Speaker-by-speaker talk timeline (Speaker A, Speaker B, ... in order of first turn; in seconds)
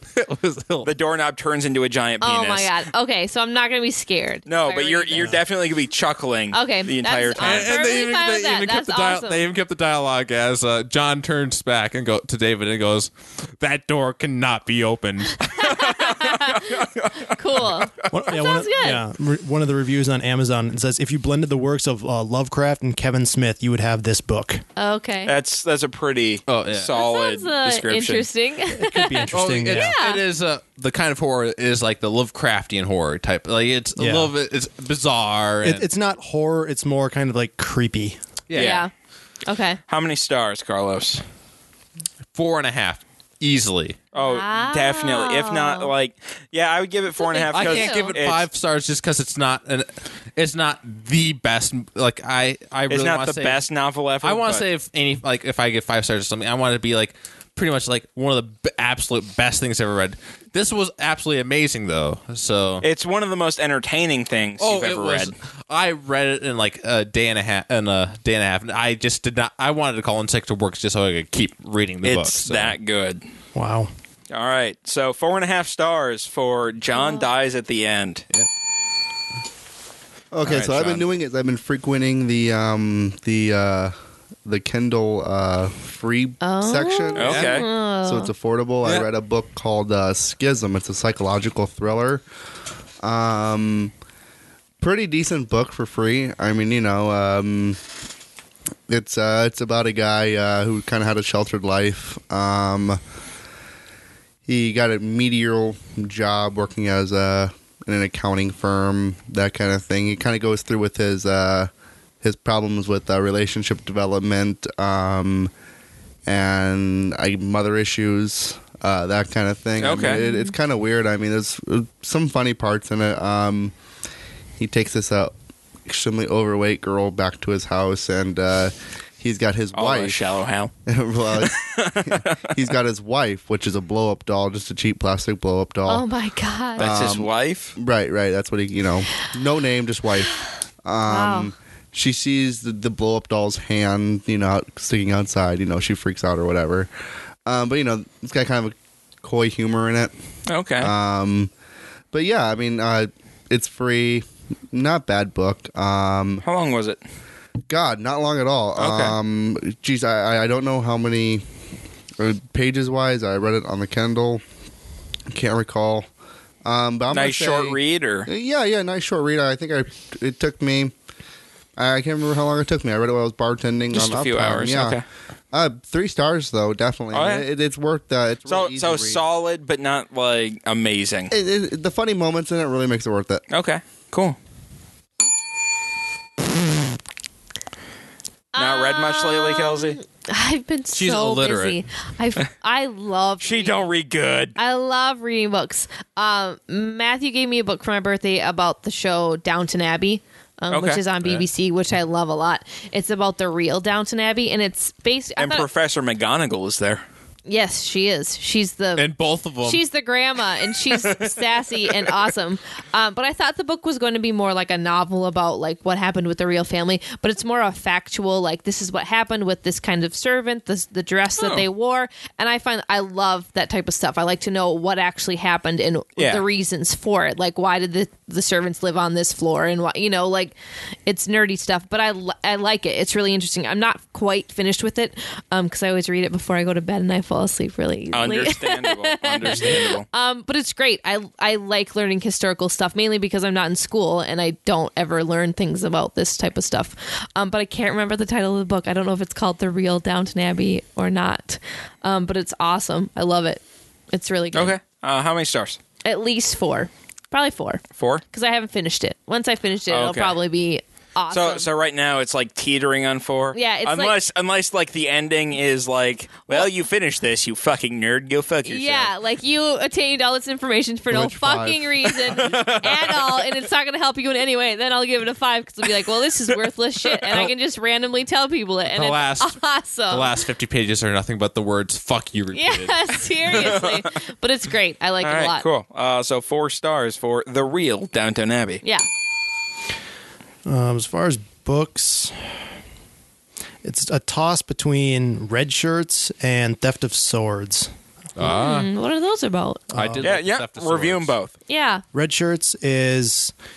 Speaker A: 0.1-0.9, 7.4-16.0, 26.5-26.9, 29.3-35.9, 38.5-38.8, 42.3-44.0, 47.5-53.6, 54.2-62.9, 64.6-72.8, 87.2-87.6, 190.9-191.8, 208.9-209.8, 272.5-273.1, 278.9-283.8, 298.4-298.9, 299.9-301.3
Speaker B: 0.8-2.7, 4.5-7.9, 16.0-18.1, 25.2-28.3, 38.5-38.9, 39.9-41.2, 44.1-48.4, 52.9-54.6, 62.8-65.3, 72.0-73.2, 74.3-78.2, 80.4-81.0, 87.2-87.7, 119.8-120.2, 129.7-130.7, 131.3-132.5, 136.8-137.7, 150.5-150.9, 156.4-157.0, 158.8-159.1, 167.1-168.3, 173.9-175.0, 177.1-177.4, 178.5-181.3, 183.5-184.4, 188.6-189.9, 193.4-194.6, 200.7-201.0, 205.4-207.0, 210.9-211.4, 221.4-221.6, 226.2-226.4, 238.1-240.1, 254.5-255.8, 258.0-258.2, 259.9-260.4, 261.3-269.1, 272.4-272.9, 283.5-284.0, 285.2-288.8, 300.2-301.5
Speaker C: 2.2-5.4, 6.5-9.4, 15.3-19.0, 24.8-25.3, 26.9-30.2, 38.5-38.9, 39.5-39.8, 44.1-45.9, 47.1-48.1, 76.9-77.3, 86.4-88.3, 119.9-120.5, 135.9-136.9, 141.1-141.5, 188.5-193.9, 194.6-205.7, 207.5-209.1, 209.6-254.8, 256.0-261.7, 263.5-264.2, 268.6-280.3, 282.5-285.6, 298.4-299.9, 301.7-302.0
Speaker D: 18.1-24.6, 28.7-29.9, 34.0-34.3, 35.6-38.2, 73.5-73.9, 290.6-292.4, 293.8-297.9, 299.9-300.3, 302.1-303.5
Speaker E: 80.3-83.9, 84.4-87.5, 88.0-92.2, 93.0-93.9, 94.8-97.8, 98.9-103.0, 104.5-111.7, 112.2-115.5, 116.2-123.7, 124.6-130.2, 130.8-136.0, 136.8-146.9, 147.4-150.1, 150.8-151.5, 152.1-156.4, 157.7-161.4, 162.2-164.4, 165.3-166.1, 166.6-170.9, 171.8-175.0, 175.5-179.2, 181.3-183.4